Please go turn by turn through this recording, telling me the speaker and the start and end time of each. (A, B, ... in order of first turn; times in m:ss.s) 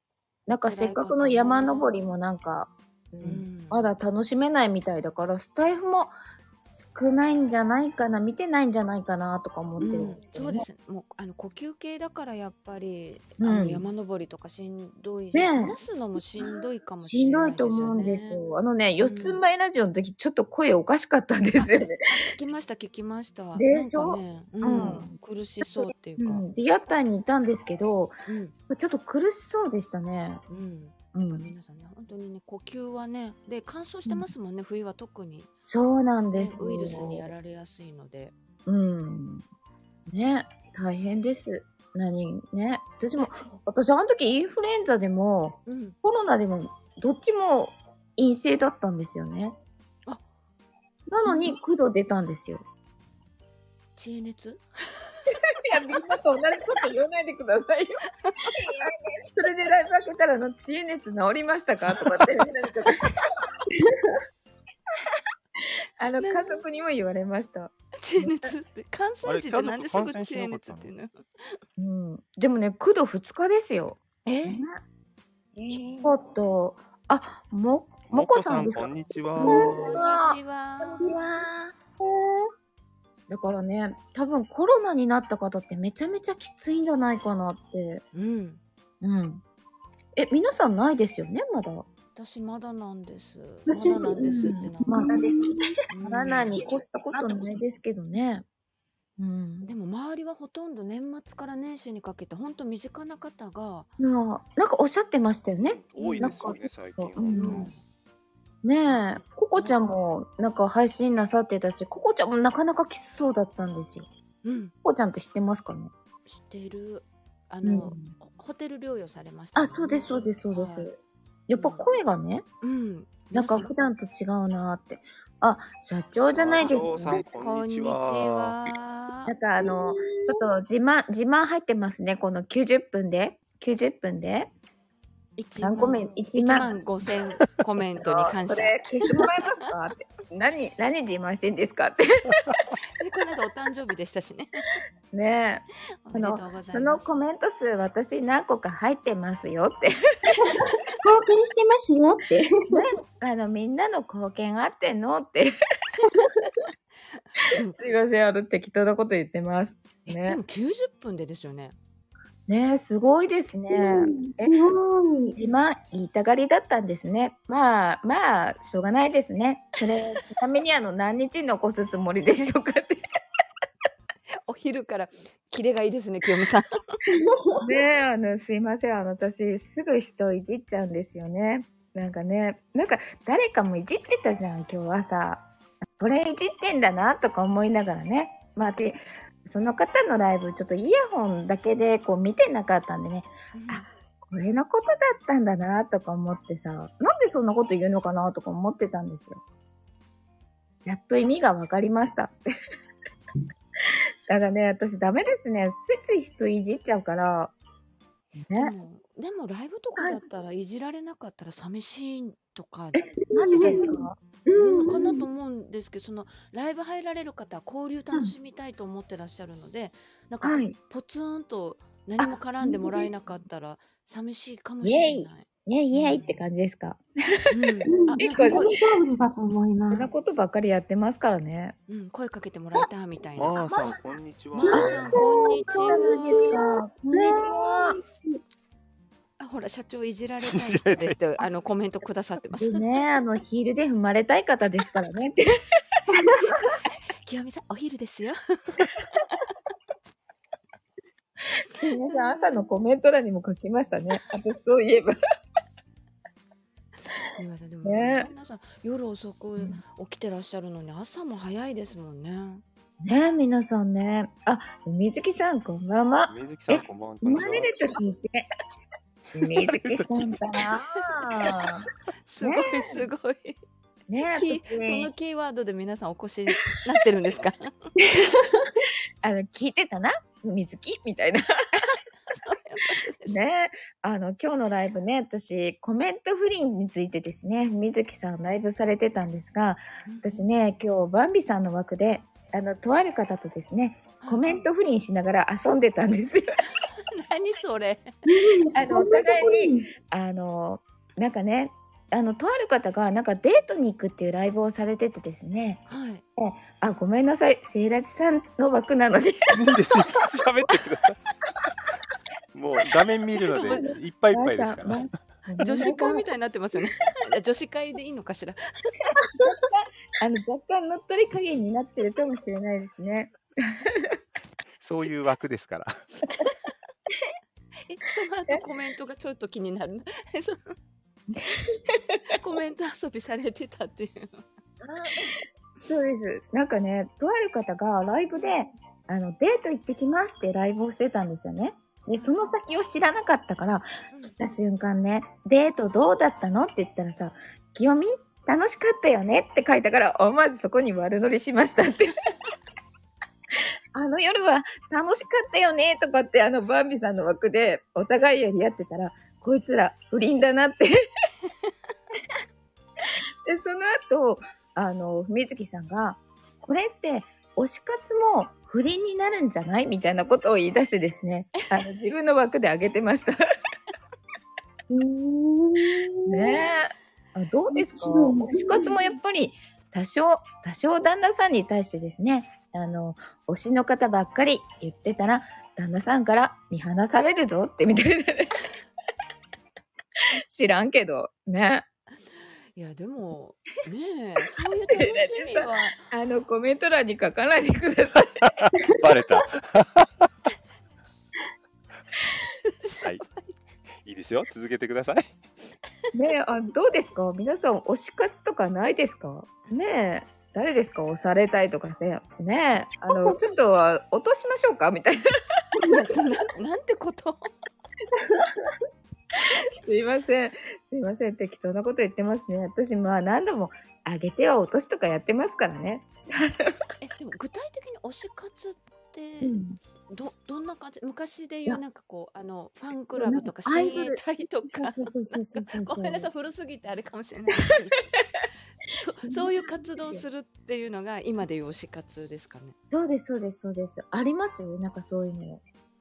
0:00.5-0:10.6 A
0:00.5-0:01.9 B
0:03.2-0:03.9 B
0:09.8-0:18.4 B
0:13.4-0:13.8 A
0:15.3-0:15.8 A
0:17.0-0:22.0 A
0:19.0-0:19.4 B
0:21.6-0:26.4 B
0:23.6-0:25.1 A
0:25.6-0:28.2 A
0:28.3-0:28.5 B
0:28.7-0:30.4 A
0:30.5-0:35.5 B
0:31.1-0:31.5 A
0:35.6-0:37.3 A
0:36.3-0:38.3 B
0:38.6-0:39.4 A
0:40.1-0:49.6 A
0:43.2-0:43.6 B
0:45.7-0:46.0 B
0:51.1-0:52.6 A
0:54.0-0:55.2 B
0:55.5-0:58.0 A
0:58.3-0:59.7 C
0:59.3-1:03.1 A
1:06.0-1:08.5 A
1:06.2-1:06.6 B
1:08.0-1:11.2 B
1:09.2-1:10.9 D
1:11.8-1:14.8 A
1:14.2-1:14.6 B
1:15.6-1:16.1 C
1:16.0-1:20.4 A
1:18.1-1:19.9 D
1:19.4-1:21.1 B
1:19.4-1:19.8 E
1:20.8-1:21.8 C
1:22.0-1:22.5 E
1:23.3-1:28.0 A
1:28.1-1:28.6 B
1:29.0-1:29.4 A
1:30.2-1:31.9 A
1:32.2-1:35.0 B
1:33.7-1:35.6 E
1:34.2-1:35.4 A
1:35.1-1:35.7 C
1:35.9-1:36.6 B
1:36.0-1:38.4 A
1:36.2-1:37.6 C
1:39.2-1:39.7 A
1:39.6-1:43.9 B
1:44.0-1:47.7 A
1:45.6-1:47.7 D
1:46.0-1:46.5 B
1:47.3-1:47.8 B
1:48.6-1:54.1 A
1:48.9-1:49.9 B
1:54.4-1:54.7 B
1:54.8-1:55.9 A
1:56.2-2:00.9 B
1:57.6-1:58.1 A
1:59.5-2:01.0 A
2:01.5-2:02.4 A
2:01.5-2:01.9 B
2:02.6-2:03.7 B
2:03.3-2:07.2 A
2:06.3-2:08.7 D
2:06.6-2:09.3 B
2:09.3-2:14.5 A
2:09.6-2:10.4 E
2:15.4-2:19.3 B
2:15.6-2:16.7 A
2:18.0-2:22.4 A
2:23.0-2:24.7 B
2:25.1-2:29.9 A
2:26.0-2:27.1 B
2:30.4-2:32.8 E
2:32.7-2:35.5 A
2:37.4-2:40.4 A
2:37.5-2:37.8 B
2:40.0-2:41.8 B
2:42.5-2:44.5 A
2:43.7-2:45.4 E
2:45.4-2:53.0 A
2:54.4-2:56.6 B
2:57.1-2:57.6 E
2:57.6-3:19.4 A
3:13.5-3:13.9 B
3:20.8-3:22.3 A
3:24.3-3:27.5 A
3:28.4-3:28.7 A
3:28.5-3:33.0 B
3:33.3-3:35.2 E
3:33.3-3:34.2 A
3:33.6-3:33.8 B
3:34.5-3:46.4 B
3:40.4-3:40.8 A
3:44.8-3:47.4 A
3:47.5-3:48.8 B
3:47.9-3:50.1 E
3:48.2-3:48.7 A
3:49.9-3:51.8 A
3:51.9-3:53.9 B
3:53.4-3:55.2 D
3:54.6-3:56.5 B
3:54.6-3:58.4 E
3:55.7-3:58.0 A
3:59.4-4:02.8 B
4:00.4-4:01.2 D
4:02.6-4:05.4 A
4:06.4-4:09.3 B
4:11.6-4:15.1 A
4:12.1-4:12.4 B
4:17.4-4:22.6 B
4:17.8-4:18.3 A
4:23.0-4:28.4 A
4:26.3-4:28.0 D
4:29.4-4:31.9 A
4:29.4-4:30.4 D
4:32.2-4:33.6 B
4:32.4-4:33.1 A
4:34.1-4:35.1 A
4:34.3-4:37.9 B
4:39.2-4:41.8 A
4:41.9-4:43.4 B
4:43.3-4:56.4 A
4:50.0-4:50.4 B
4:54.2-4:54.6 B
4:56.8-4:58.1 B
4:58.3-4:59.9 E
4:58.7-5:05.8 A
5:05.9-5:06.2 B
5:06.4-5:09.4 A
5:09.5-5:11.2 D
5:12.5-5:15.1 D
5:13.5-5:16.2 A
5:13.5-5:13.9 B
5:15.6-5:18.6 B
5:19.4-5:24.2 A
5:24.8-5:25.9 D
5:27.9-5:30.7 B
5:31.7-5:32.0 A
5:32.3-5:34.5 B
5:34.8-5:35.4 C
5:35.8-5:52.1 A
5:42.2-5:42.4 B
5:44.1-5:44.4 B
5:53.9-6:00.9 A
6:03.4-6:13.4 A
6:14.9-6:16.7 E
6:16.3-6:28.7 A
6:17.7-6:19.1 E
6:30.5-6:31.8 A
6:32.8-6:36.0 B
6:34.9-6:38.5 A
6:38.4-6:40.3 D
6:42.4-6:43.5 B
6:44.0-6:45.3 D
6:46.1-6:55.2 A
6:55.8-6:57.5 B
6:59.4-7:06.8 A
7:07.0-7:09.5 B
7:09.4-7:09.8 A
7:10.1-7:18.0 B
7:13.1-7:16.3 A
7:18.9-7:22.7 B
7:19.3-7:20.2 A
7:22.9-7:25.6 A